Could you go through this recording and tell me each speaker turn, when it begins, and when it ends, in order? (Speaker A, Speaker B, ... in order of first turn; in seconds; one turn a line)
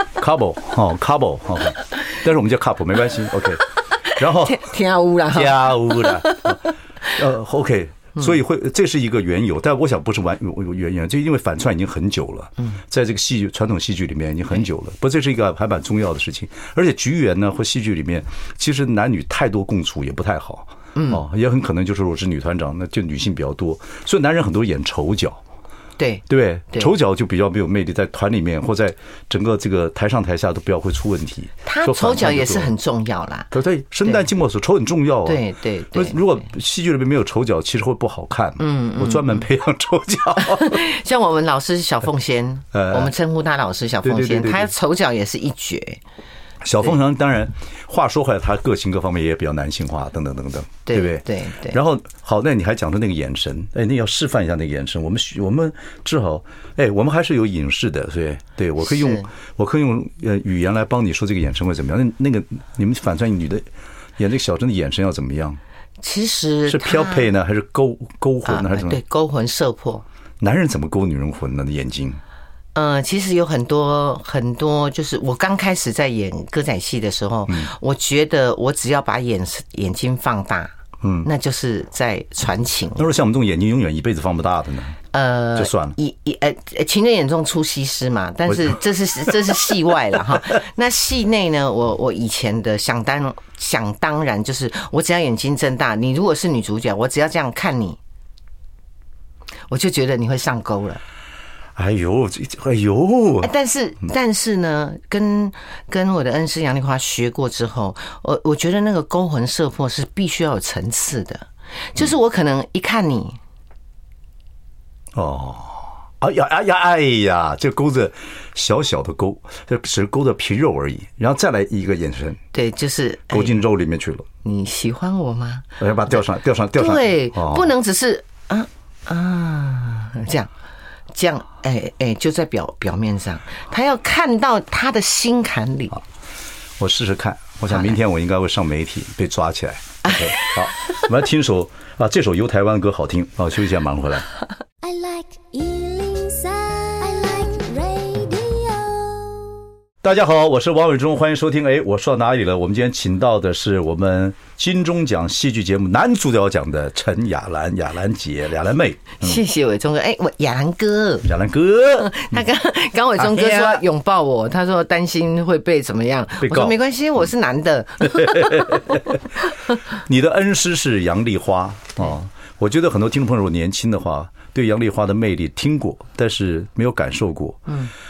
Speaker A: 0.2-4.7
Speaker B: 4.4-6.6
Speaker A: 5.3-25.4
Speaker B: 20.9-21.2
Speaker B: 26.0-26.9
Speaker A: 26.3-32.7
Speaker B: 31.7-33.5
Speaker A: 33.5-35.4
Speaker B: 35.2-36.2
Speaker A: 35.9-40.8
Speaker B: 38.6-39.4
Speaker B: 40.4-46.0
Speaker A: 42.7-43.1
Speaker A: 44.0-44.7
Speaker A: 46.6-63.7
Speaker B: 50.9-51.8
Speaker B: 58.8-59.3
Speaker A: 64.2-65.6
Speaker B: 66.0-67.3
Speaker A: 66.7-69.0
Speaker B: 68.5-70.0
Speaker A: 70.4-72.2
Speaker B: 72.8-83.1
Speaker A: 81.0-81.3
Speaker A: 83.0-85.0
Speaker B: 85.1-98.0
Speaker A: 85.6-86.0
Speaker A: 88.5-88.8
Speaker A: 89.3-89.7
Speaker B: 99.7-101.0
Speaker A: 101.8-103.5
Speaker B: 103.4-113.4
Speaker A: 115.2-122.4
Speaker B: 122.5-123.6
Speaker A: 123.3-124.3
Speaker B: 124.4-125.8
Speaker A: 125.8-127.7
Speaker B: 126.8-130.5
Speaker B: 131.1-136.0
Speaker A: 136.8-144.3
Speaker B: 137.7-138.0
Speaker B: 140.0-141.0
Speaker C: 144.8-149.5
Speaker A: 150.0-159.4
Speaker B: 159.2-161.3
Speaker A: 161.2-162.4
Speaker B: 161.9-169.0
Speaker A: 163.2-163.8
Speaker A: 166.4-166.8
Speaker A: 168.0-169.2
Speaker A: 169.9-177.7